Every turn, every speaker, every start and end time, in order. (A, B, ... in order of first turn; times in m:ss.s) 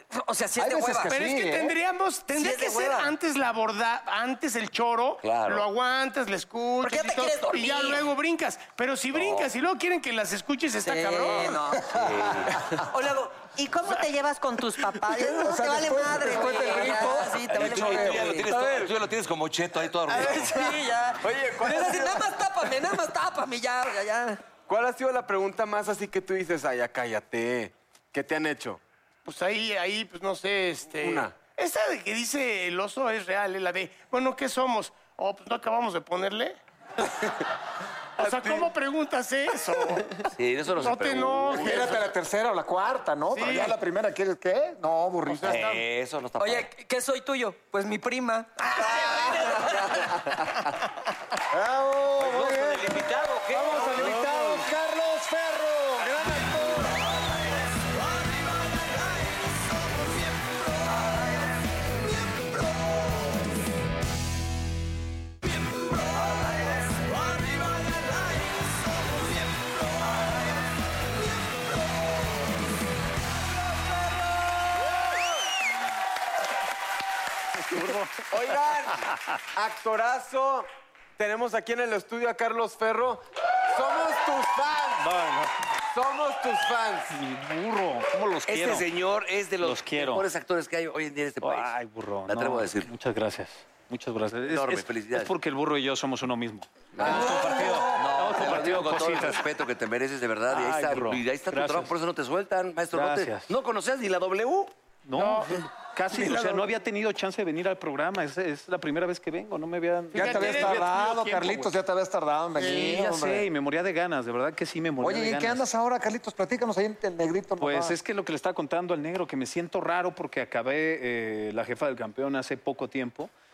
0:00.1-0:01.2 A
0:00.6-0:01.8 B
0:01.1-0:11.6 C
0:02.3-0:03.1 A
0:05.2-0:05.7 D
0:06.8-0:08.0 A
0:09.1-0:09.5 D
0:10.8-0:11.9 A
0:11.8-0:12.8 D
0:12.0-0:12.5 B
0:12.9-0:18.5 A
0:15.0-0:18.3 B
0:17.5-0:20.7 D
0:18.4-0:18.9 E
0:20.1-0:24.4 A
0:20.3-0:20.6 E
0:21.2-0:22.4 E
0:24.7-0:28.8 E
0:29.2-0:37.1 C
0:31.0-0:31.3 E
0:38.2-0:42.0 C
0:40.3-0:42.0 D
0:41.5-0:45.8 B
0:43.3-0:43.7 C
0:45.3-0:45.8 C
0:45.4-0:46.7 D
0:46.4-0:50.3 A
0:48.8-0:49.6 B
0:49.4-0:50.1 D
0:51.5-0:57.0 B
0:52.2-0:54.6 D
1:17.6-1:18.2 F
1:18.2-1:25.1 E
1:25.0-1:25.5 F
1:25.9-1:27.2 E
1:27.1-1:28.8 F
1:28.4-1:31.7 D
1:29.6-1:30.2 F
1:31.4-1:39.4 F
1:32.3-1:32.9 D
1:34.5-1:35.3 D
1:36.9-1:44.7 D
1:37.1-1:37.7 A
1:40.5-1:41.9 F
1:42.9-1:43.5 F
1:45.0-1:50.9 F
1:45.1-1:46.6 C
1:50.1-1:51.6 C
1:50.1-1:53.5 B
1:52.6-1:55.6 F
1:52.6-1:52.9 C
1:55.0-1:58.0 B
1:57.6-2:03.3 F